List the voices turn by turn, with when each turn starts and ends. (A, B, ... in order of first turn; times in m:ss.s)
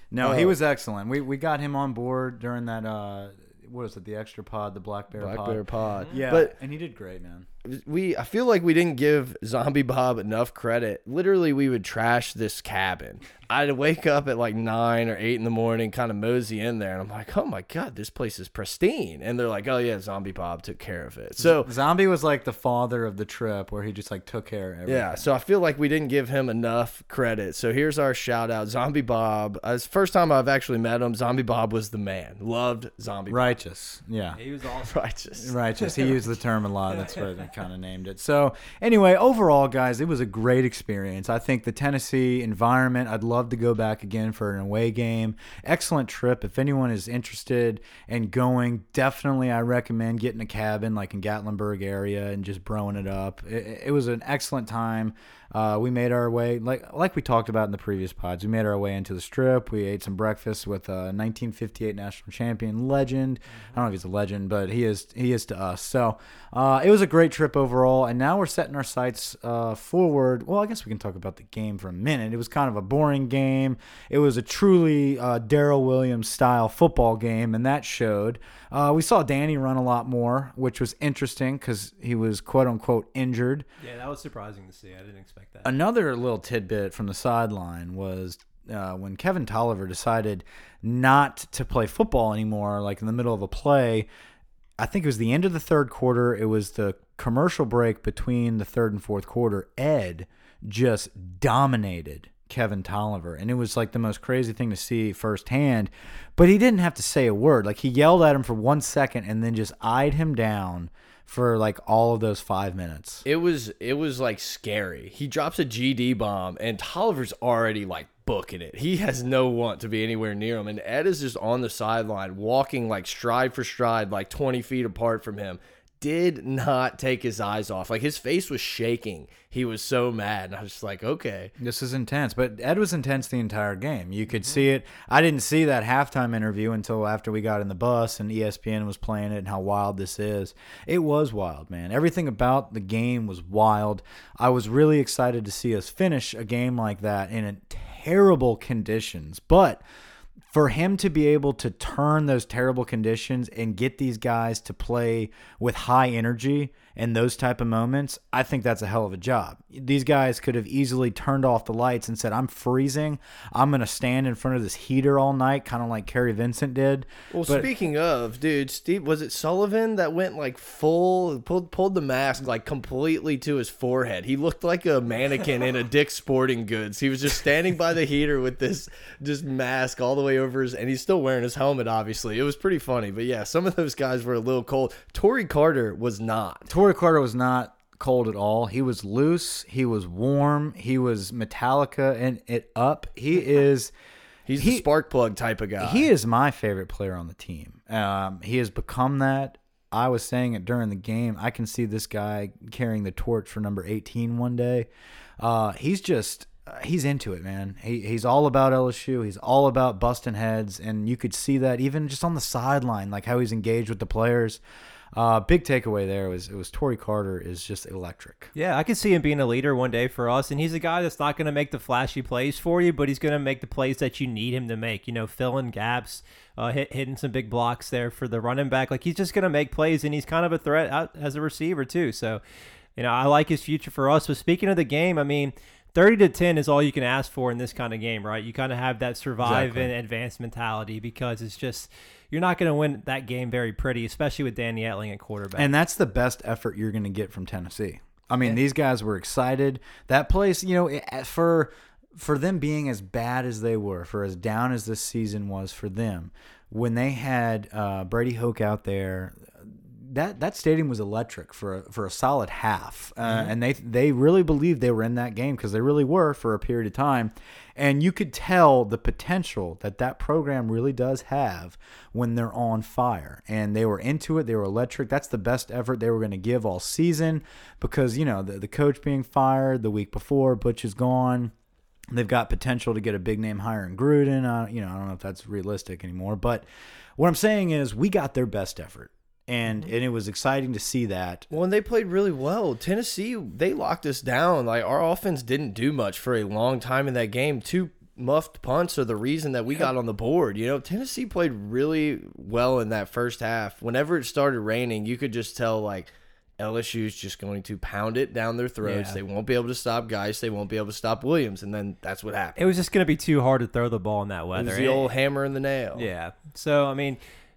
0:00.1-0:07.5 A
0:00.2-0:00.6 B
0:05.2-0:06.5 B
0:07.6-0:21.7 B
0:21.4-0:25.2 A
0:24.9-0:33.6 B
0:33.3-0:34.4 A
0:34.4-0:34.9 C
0:34.8-0:36.2 B
0:35.4-1:23.7 A
1:23.8-1:25.7 C
1:25.6-1:34.1 A
1:34.8-1:53.2 A
1:53.3-2:11.5 B
2:11.6-2:29.8 A
2:30.5-2:47.7 A
2:47.3-3:06.7 B
3:06.7-3:13.9 A
3:14.5-3:16.1 B
3:14.6-3:14.9 A
3:15.8-3:34.6 A
3:35.1-3:38.5 A
3:38.6-3:52.4 C
3:53.0-4:05.7 C
3:59.4-3:59.9 A
4:05.6-4:41.5 A
4:23.2-4:23.5 C
4:42.1-4:46.6 A
4:47.2-4:51.5 A
4:51.5-5:12.6 B
5:08.8-5:09.2 C
5:12.6-5:15.1 C
5:14.6-5:16.1 B
5:16.0-5:17.2 C